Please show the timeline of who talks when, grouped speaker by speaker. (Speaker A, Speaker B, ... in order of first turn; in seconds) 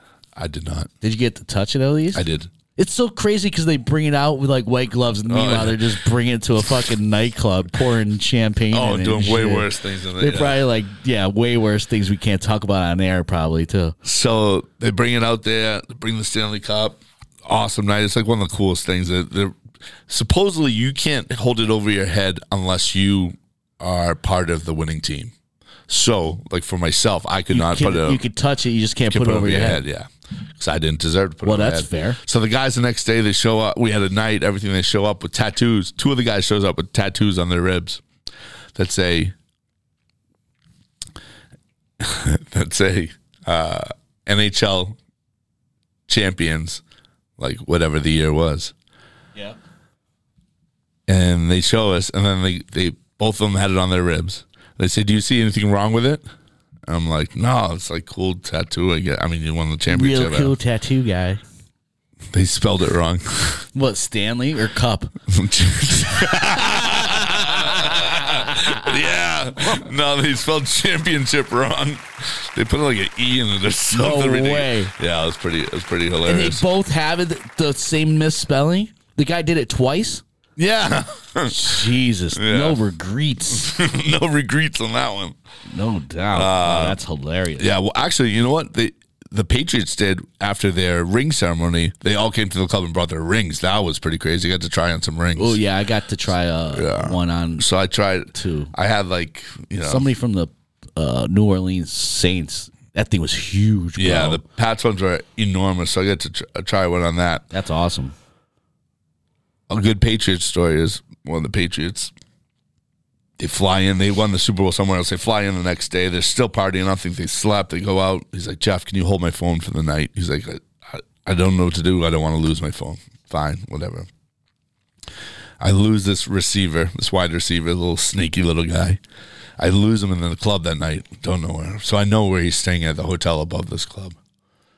Speaker A: 0.4-0.9, 2.1-2.5, 5.3-5.9, 8.7-10.7, 14.1-19.6, 20.1-25.3, 25.9-28.2, 29.1-38.0, 38.8-39.4, 42.0-45.0, 46.1-46.8, 47.4-48.7, 51.1-56.2, 56.9-60.6, 62.3-63.7, 65.3-76.7, 80.6-82.8, 83.5-85.4, 86.3-87.0, 87.6-95.6, 96.7-100.1, 104.0-107.5, 109.7-112.1, 113.4-124.1, 125.6-129.0, 129.6-134.2
Speaker B: 1.0-2.2, 2.8-14.0, 27.5-29.8, 31.4-32.2, 59.9-61.4, 63.7-65.1, 67.2-68.9, 73.9-74.9, 76.2-80.2, 81.5-83.7, 85.7-87.7, 95.4-97.6, 98.3-98.7, 99.8-104.4, 107.5-108.2